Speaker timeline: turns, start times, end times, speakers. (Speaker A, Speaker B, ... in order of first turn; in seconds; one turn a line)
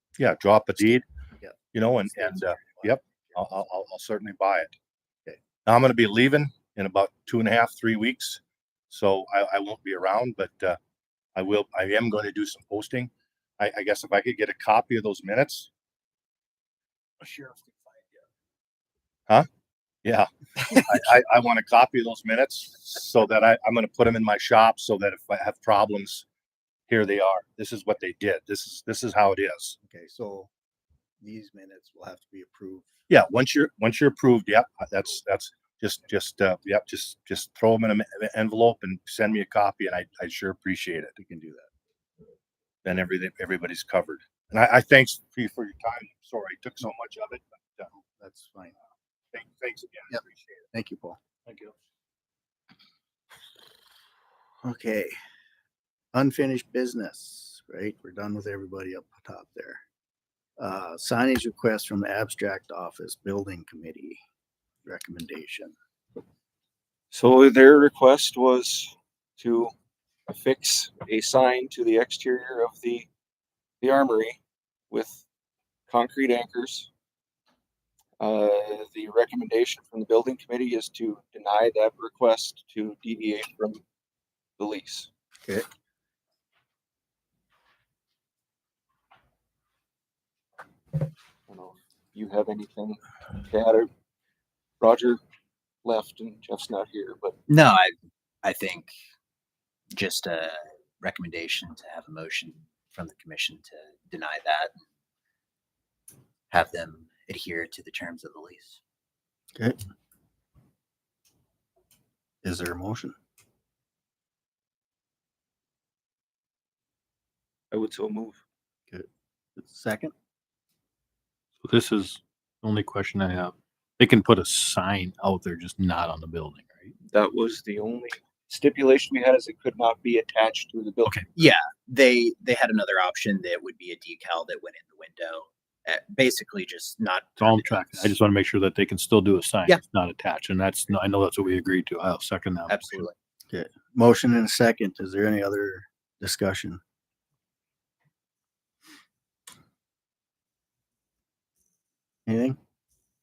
Speaker A: 0.2-1.0
Speaker B: 0.8-3.7
Speaker A: 1.7-4.7
Speaker A: 5.6-10.8
Speaker A: 11.3-15.7
Speaker C: 17.2-17.6
Speaker A: 20.0-26.2
Speaker A: 26.9-29.8
Speaker B: 29.8-30.5
Speaker B: 31.2-33.0
Speaker A: 33.1-41.1
Speaker B: 41.2-41.7
Speaker A: 42.8-47.9
Speaker B: 48.0-48.8
Speaker A: 49.3-50.6
Speaker B: 50.7-51.2
Speaker D: 51.5-51.7
Speaker B: 54.6-55.1
Speaker B: 56.1-59.8
Speaker B: 60.6-64.2
Speaker B: 64.8-65.7
Speaker C: 67.1-69.7
Speaker C: 70.3-73.1
Speaker C: 73.8-74.4
Speaker C: 74.9-75.2
Speaker C: 75.9-76.9
Speaker C: 78.2-83.8
Speaker C: 84.6-85.1
Speaker C: 91.5-93.9
Speaker C: 94.8-95.2
Speaker C: 95.8-97.3
Speaker E: 97.5-98.9
Speaker E: 99.9-104.7
Speaker E: 106.5-108.8
Speaker B: 112.4-113.1
Speaker C: 117.7-118.4
Speaker B: 118.9-120.1
Speaker D: 121.6-126.9
Speaker C: 127.1-131.2
Speaker E: 131.3-138.1
Speaker D: 137.4-143.0
Speaker E: 142.7-143.1
Speaker B: 143.5-146.8
Speaker B: 152.2-152.6